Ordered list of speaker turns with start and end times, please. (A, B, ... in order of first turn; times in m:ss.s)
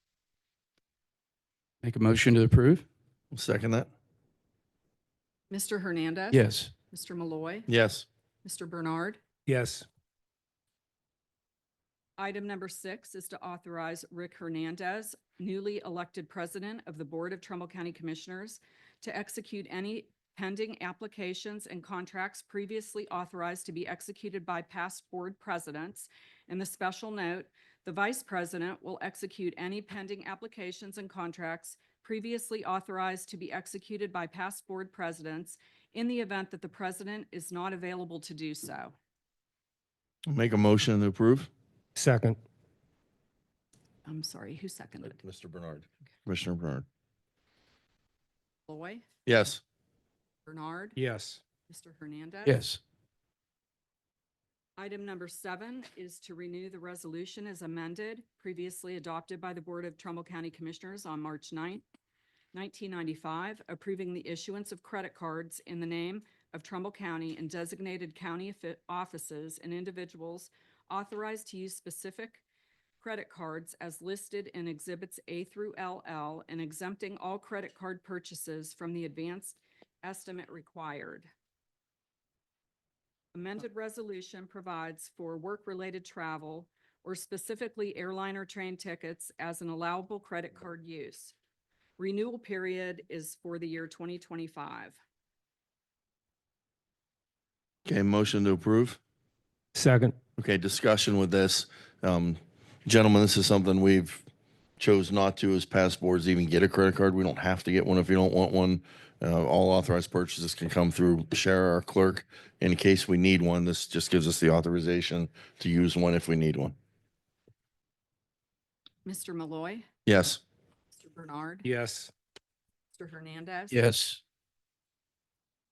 0:01.8-0:02.8 A
0:03.3-0:03.9 B
0:05.5-0:07.7 C
0:06.3-0:06.7 A
0:07.7-0:08.0 B
0:08.4-0:09.2 C
0:09.5-0:09.8 D
0:12.2-0:38.9 C
0:40.3-0:41.5 B
0:42.0-0:42.4 D
0:44.0-0:45.2 C
0:45.1-0:46.8 B
0:48.7-0:49.0 C
0:49.2-0:49.6 B
0:50.4-0:51.0 C
0:51.0-0:51.4 D
0:51.7-0:52.6 C
0:52.4-0:52.8 A
0:54.8-1:01.8 C
1:02.5-1:12.4 C
1:13.0-1:21.3 C
1:23.3-1:31.3 C
1:32.0-1:35.0 C
1:37.8-1:39.0 B
1:39.7-1:40.1 D
1:40.4-1:44.2 B
1:44.8-1:56.7 B
1:59.0-1:59.9 C
2:00.0-2:00.4 B
2:00.9-2:01.6 C
2:01.6-2:02.1 D
2:02.9-2:03.8 C
2:03.7-2:04.2 A